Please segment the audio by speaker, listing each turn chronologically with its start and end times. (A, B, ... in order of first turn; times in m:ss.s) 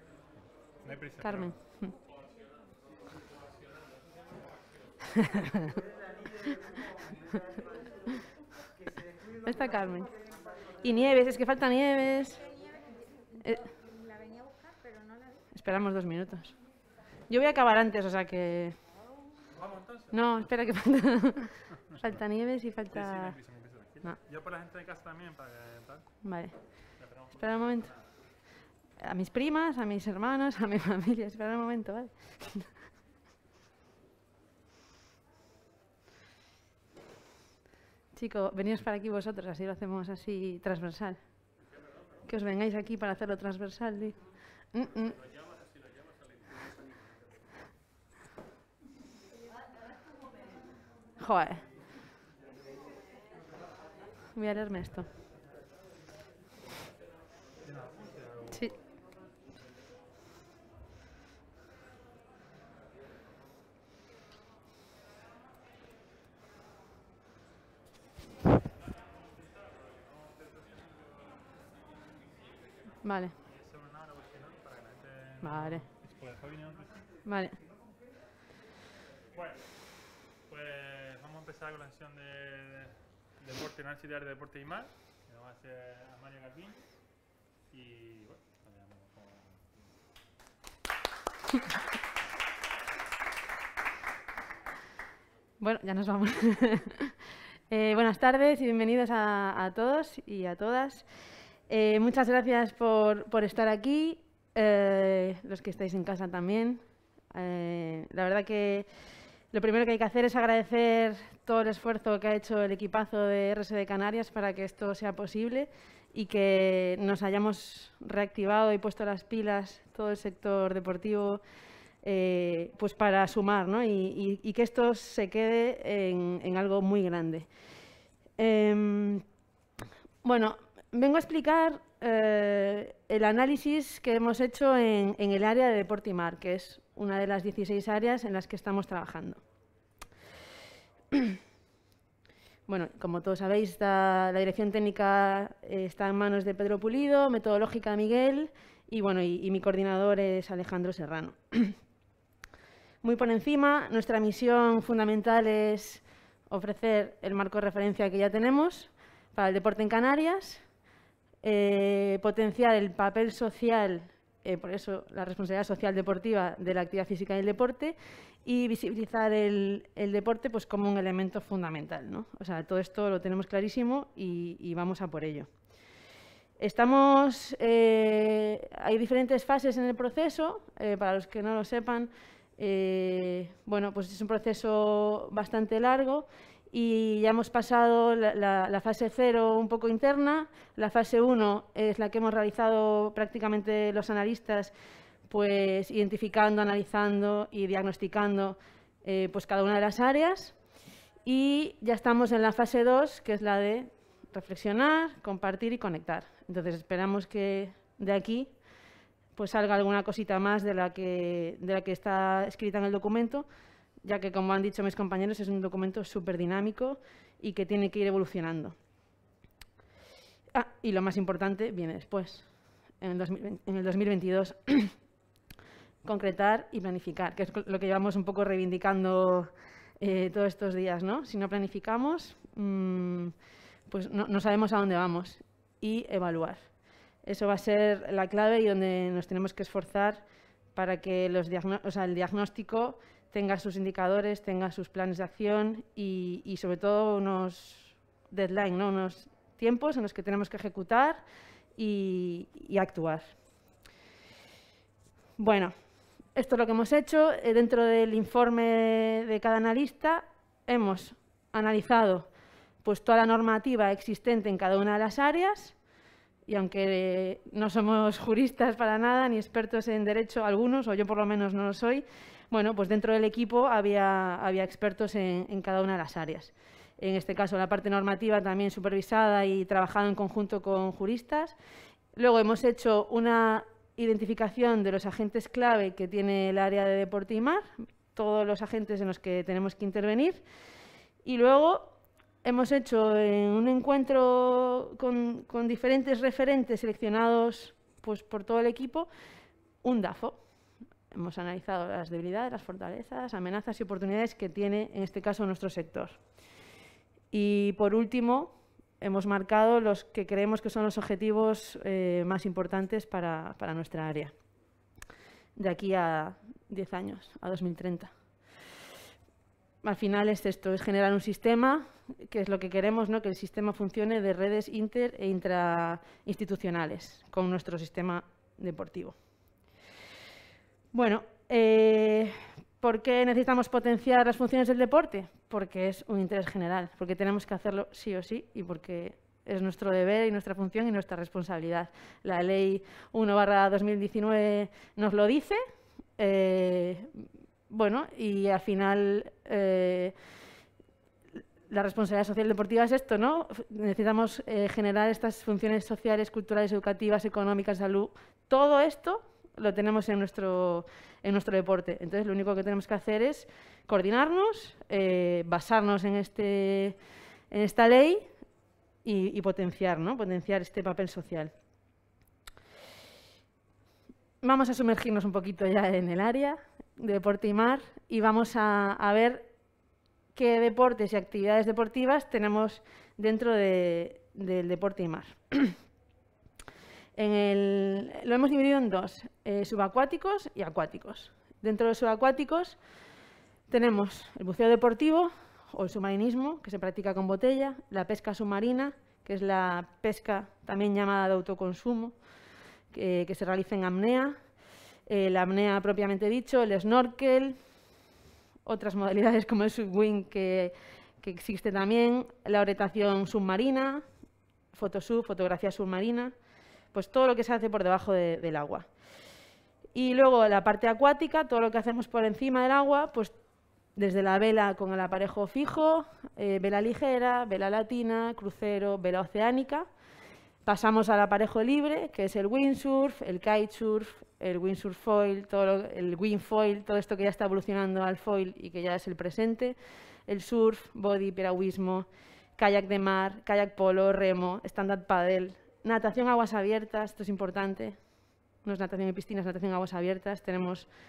0:00.4-0:01.6 A
0:01.2-0:02.0 B
0:05.2-0:05.8 B
0:09.4-0:12.7 B
0:13.4-0:13.8 B
0:15.5-0:16.6 B
0:17.3-0:18.9 B
0:19.5-0:20.2 A
0:20.1-0:24.2 B
0:21.9-0:22.2 A
0:22.9-0:26.2 A
0:26.2-0:28.0 B
0:27.0-0:28.1 A
0:29.0-0:32.8 B
0:38.1-0:41.6 B
0:41.7-0:42.1 A
0:42.2-0:45.2 B
0:45.2-0:47.3 A
0:51.2-0:51.6 B
0:54.3-0:55.1 B
0:57.6-0:58.9 A
1:09.6-1:11.4 A
1:13.0-1:13.3 B
1:13.4-1:17.1 A
1:15.4-1:15.8 B
1:17.2-1:17.6 B
1:19.3-1:29.9 A
1:35.6-1:37.1 B
1:37.7-1:41.0 B
1:41.7-1:46.8 B
1:47.3-1:48.9 B
1:49.5-2:01.4 B
2:02.0-2:07.5 B
2:08.4-2:09.2 B
2:10.2-2:19.4 B
2:21.1-2:21.4 B
2:22.7-2:31.8 B
2:33.0-2:40.6 B
2:41.4-2:55.5 B
2:56.6-3:14.7 B
3:15.3-3:20.6 B
3:21.2-3:28.5 B
3:29.3-3:33.4 B
3:34.0-3:38.8 B
3:40.5-3:45.0 B
3:46.0-3:53.3 B
3:53.9-3:56.7 B
3:57.2-4:11.2 B
4:11.8-4:13.4 B
4:15.4-4:15.7 B
4:16.3-4:22.3 B
4:22.8-4:25.8 B
4:26.4-4:41.6 B
4:42.1-4:50.4 B
4:51.2-4:59.1 B
4:59.8-5:00.4 B
5:01.1-5:06.2 B
5:07.3-5:14.3 B
5:15.6-5:18.1 B
5:19.8-5:29.2 B
5:30.9-5:45.6 B
5:46.2-5:50.1 B
5:51.7-6:07.0 B
6:07.5-6:08.3 B
6:09.0-6:11.5 B
6:14.4-6:19.5 B
6:20.3-6:25.8 B
6:27.2-6:32.8 B
6:33.7-6:42.2 B
6:42.9-6:44.4 B
6:45.1-6:47.6 B
6:48.6-6:54.0 B
6:54.7-6:56.3 B
6:56.9-6:58.9 B
6:59.9-7:03.3 B
7:03.9-7:09.9 B
7:10.6-7:19.8 B
7:20.3-7:28.0 B
7:28.6-7:30.9 B